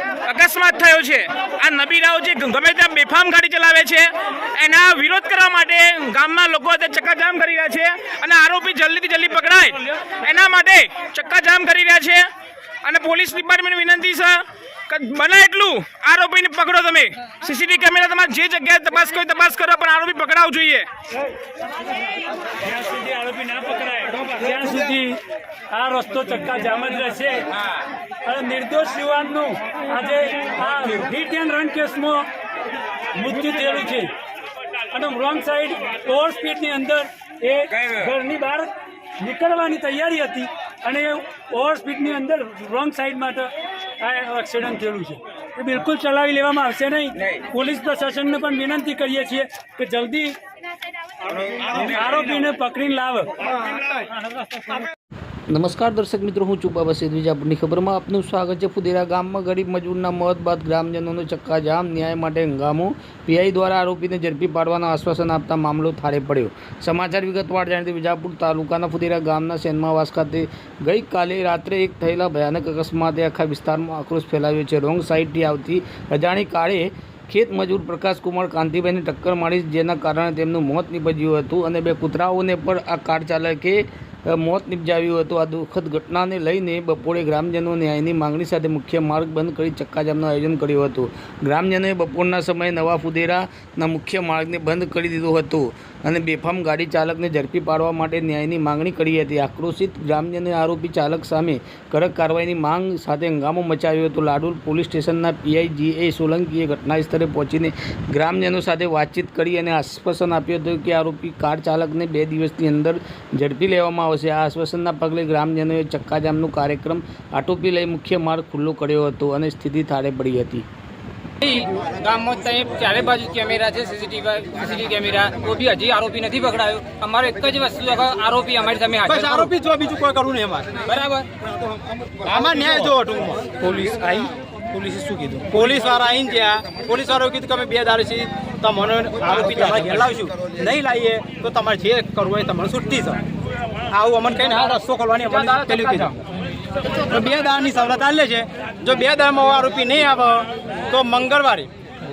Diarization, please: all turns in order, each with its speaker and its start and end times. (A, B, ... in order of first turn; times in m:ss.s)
0:00.2-0:12.2 A
0:12.8-0:20.8 A
0:22.6-0:27.6 B
0:28.2-0:32.3 B
0:33.2-0:34.1 B
0:34.9-0:43.5 B
0:44.0-0:50.3 B
0:51.7-0:53.3 B
0:55.5-2:00.6 C
2:01.4-2:09.5 D
2:09.0-2:10.7 E
2:10.8-2:11.2 D
2:12.3-2:23.2 E
2:23.9-2:26.2 E
2:25.3-2:26.0 D
2:27.1-2:31.7 E